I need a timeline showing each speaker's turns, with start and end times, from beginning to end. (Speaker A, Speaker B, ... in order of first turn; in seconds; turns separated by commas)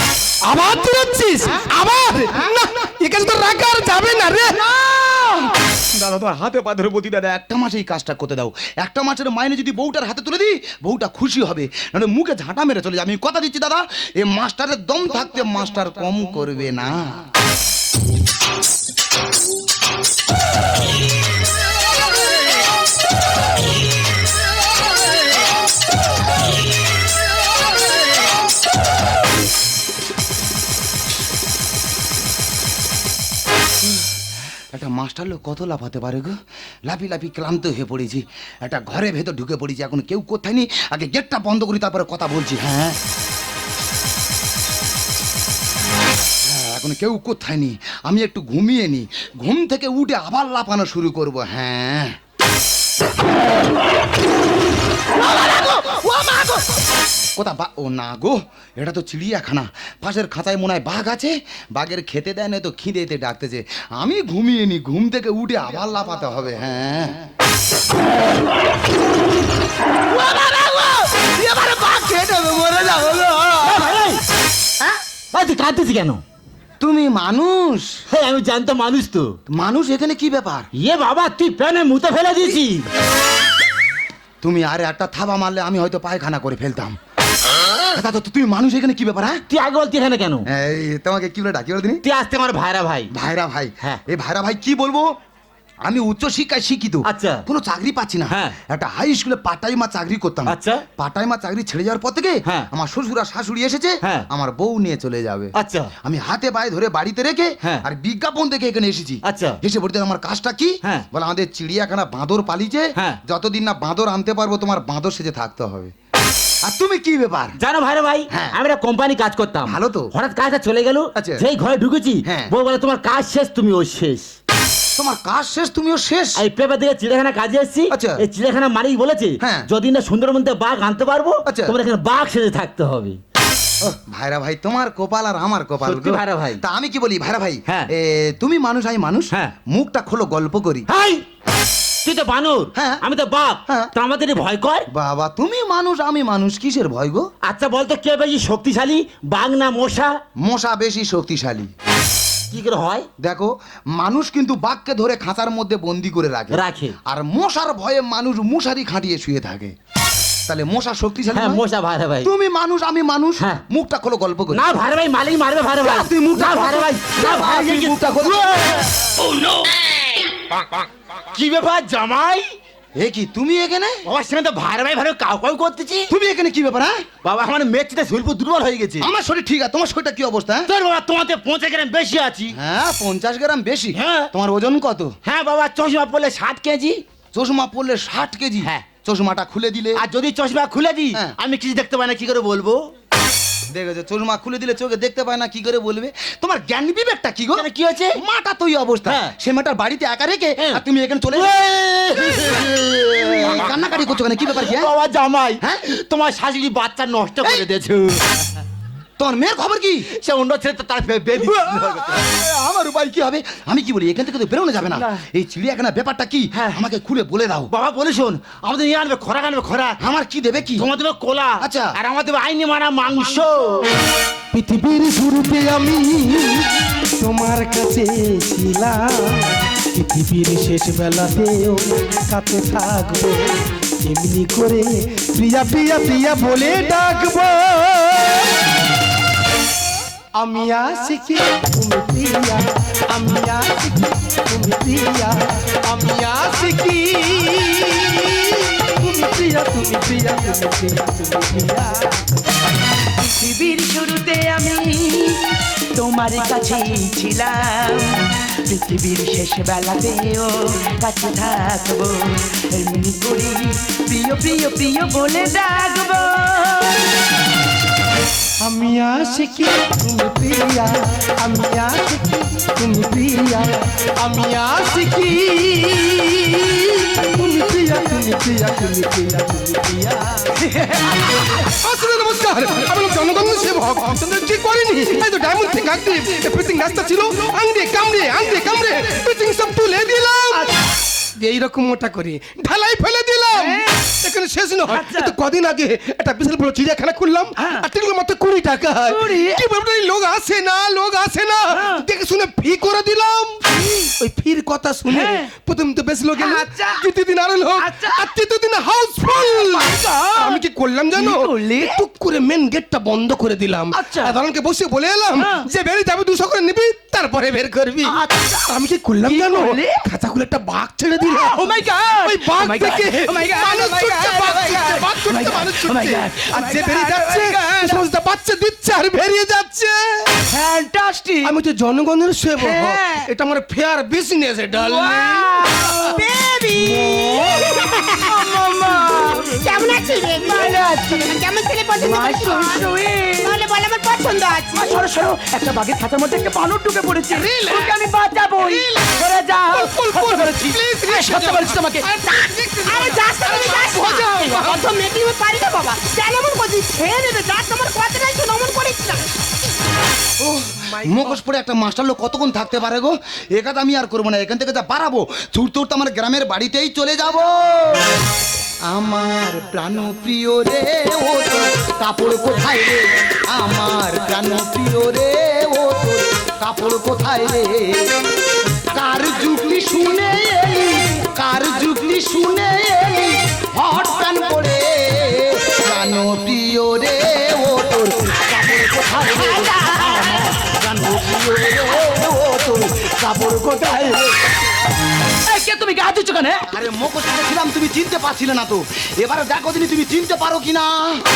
Speaker A: 0.4-4.6, Speaker B: 4.5-17.3, Speaker B: 33.8-34.1, Speaker B: 34.7-43.0, Speaker B: 46.4-52.2, Speaker B: 55.2-56.8, Speaker B: 57.4-67.2, Speaker B: 70.1-74.0, Speaker C: 73.6-74.2, Speaker C: 75.3-76.2, Speaker B: 76.8-78.0, Speaker C: 78.1-79.4, Speaker B: 79.5-80.7, Speaker C: 80.8-82.9, Speaker B: 84.4-87.0, Speaker B: 87.9-89.4, Speaker C: 89.5-90.5, Speaker B: 90.5-92.0, Speaker C: 92.0-93.1, Speaker B: 93.1-95.1, Speaker B: 95.9-105.5, Speaker C: 97.0-97.5, Speaker C: 98.3-98.6, Speaker C: 100.5-100.8, Speaker C: 104.0-104.3, Speaker C: 105.6-105.9, Speaker B: 106.0-115.9, Speaker C: 109.2-109.6, Speaker B: 116.7-117.6, Speaker C: 117.6-124.3, Speaker B: 118.3-118.6, Speaker B: 119.7-120.1, Speaker B: 121.2-121.5, Speaker B: 122.2-122.5, Speaker B: 125.0-126.4, Speaker C: 126.4-133.2, Speaker B: 127.9-128.2, Speaker B: 129.4-129.7, Speaker B: 131.5-131.8, Speaker B: 133.8-140.9, Speaker C: 135.8-136.6, Speaker C: 140.9-141.2, Speaker C: 142.1-144.9, Speaker B: 142.8-143.0, Speaker B: 144.9-147.3, Speaker C: 147.4-150.2, Speaker B: 150.4-151.7, Speaker C: 152.5-153.1, Speaker B: 153.2-159.8, Speaker C: 156.5-157.0, Speaker B: 160.5-161.6, Speaker C: 161.3-162.3, Speaker B: 162.2-164.7, Speaker C: 164.5-170.0, Speaker B: 165.8-168.9, Speaker C: 171.3-172.5, Speaker B: 173.0-174.0, Speaker C: 174.1-176.1, Speaker B: 176.1-177.1, Speaker C: 177.2-179.1, Speaker B: 179.0-180.7, Speaker C: 180.7-182.6, Speaker B: 182.5-185.2, Speaker C: 183.9-184.3, Speaker C: 185.2-187.0, Speaker B: 187.3-190.0, Speaker C: 189.9-192.8, Speaker B: 193.7-201.5, Speaker C: 197.6-198.2, Speaker C: 199.1-199.3, Speaker C: 201.3-203.7, Speaker B: 202.2-204.9, Speaker C: 204.5-208.2, Speaker B: 209.2-210.1, Speaker C: 210.1-212.2, Speaker B: 211.4-217.7, Speaker C: 216.5-216.8, Speaker C: 217.7-220.0, Speaker B: 220.0-220.9, Speaker C: 220.8-223.9, Speaker B: 221.6-222.0, Speaker A: 224.5-238.5, Speaker A: 240.4-252.1, Speaker D: 253.1-267.1, Speaker A: 268.6-280.5, Speaker D: 280.6-281.7, Speaker A: 281.6-290.7, Speaker D: 290.5-290.8, Speaker A: 291.4-303.6, Speaker D: 293.5-294.0, Speaker D: 294.9-295.4, Speaker D: 297.6-297.9, Speaker D: 299.1-299.6, Speaker D: 301.7-302.0, Speaker D: 303.7-304.1, Speaker A: 304.2-321.7, Speaker D: 305.1-305.5, Speaker D: 306.4-307.1, Speaker D: 307.8-308.3, Speaker D: 309.4-310.6, Speaker D: 311.1-311.9, Speaker D: 313.9-314.4, Speaker D: 315.4-315.7, Speaker D: 318.0-318.7, Speaker D: 319.2-320.0, Speaker D: 321.2-328.0, Speaker A: 322.2-330.3, Speaker D: 330.5-331.6, Speaker A: 331.4-335.9, Speaker D: 332.6-333.3, Speaker D: 334.7-336.2, Speaker E: 336.0-338.5, Speaker D: 336.8-337.7, Speaker D: 338.3-341.4, Speaker E: 339.5-342.9, Speaker D: 342.0-343.6, Speaker E: 343.4-345.0, Speaker D: 344.8-352.1, Speaker A: 347.3-347.9, Speaker A: 348.6-354.9, Speaker E: 352.9-359.2, Speaker B: 360.4-368.2, Speaker A: 360.6-361.4, Speaker B: 368.9-378.1, Speaker B: 378.9-394.4, Speaker D: 389.4-390.2, Speaker D: 395.5-396.7, Speaker B: 396.7-401.2